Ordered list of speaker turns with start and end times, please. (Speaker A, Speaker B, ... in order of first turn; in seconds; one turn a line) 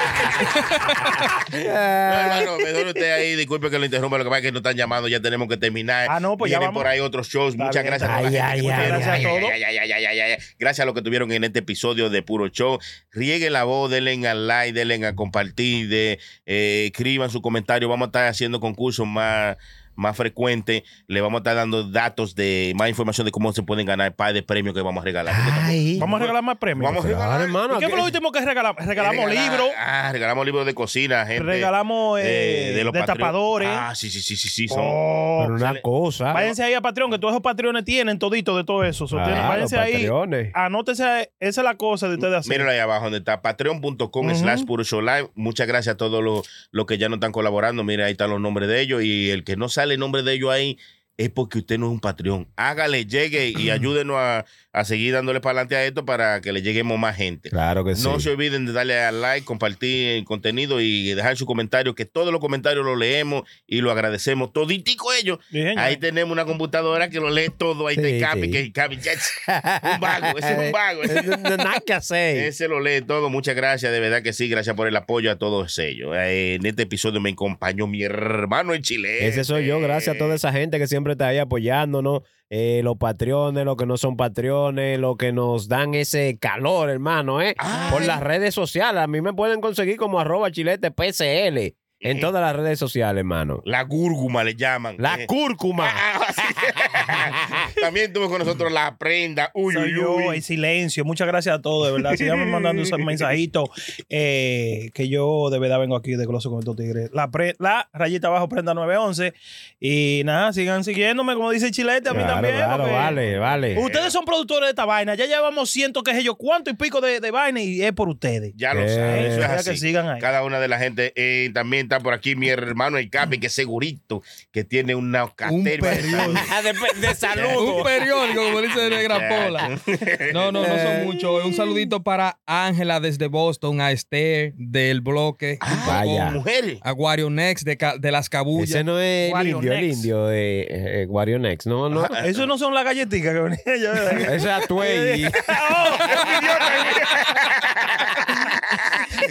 Speaker A: 1.6-2.6
Speaker B: 2.1-27.6
Speaker C: 6.1-6.9
Speaker C: 7.6-9.6
Speaker A: 8.0-9.3
Speaker A: 25.3-26.1
Speaker C: 26.0-27.0
Speaker A: 26.9-28.1
Speaker C: 27.7-29.8
Speaker B: 29.0-35.0
Speaker C: 31.4-33.9
Speaker C: 34.7-35.5
Speaker A: 35.4-36.5
Speaker B: 35.5-35.8
Speaker C: 36.3-42.7
Speaker A: 39.1-40.5
Speaker B: 39.3-39.6
Speaker B: 42.4-71.4
Speaker C: 44.2-44.7
Speaker A: 57.5-58.3
Speaker C: 65.5-66.0
Speaker A: 68.0-68.6
Speaker A: 69.3-72.5
Speaker B: 72.3-80.4
Speaker A: 79.2-93.6
Speaker B: 87.6-88.2
Speaker B: 92.0-92.3
Speaker B: 93.7-95.3
Speaker A: 95.0-96.0
Speaker B: 95.8-100.4
Speaker A: 97.0-97.7
Speaker C: 99.7-113.2
Speaker A: 102.2-102.5
Speaker A: 112.1-113.8
Speaker B: 112.1-114.2
Speaker C: 113.8-120.3
Speaker B: 118.5-126.5
Speaker A: 118.7-119.5
Speaker D: 125.5-126.5
Speaker A: 126.1-127.9
Speaker B: 127.3-127.9
Speaker D: 127.6-129.7
Speaker B: 128.7-130.6
Speaker D: 130.3-138.8
Speaker A: 130.5-131.9
Speaker B: 135.6-136.8
Speaker A: 135.8-136.4
Speaker A: 138.6-142.2
Speaker C: 139.2-140.1
Speaker B: 141.9-142.5
Speaker C: 142.2-146.9
Speaker A: 144.3-145.4
Speaker B: 146.1-149.1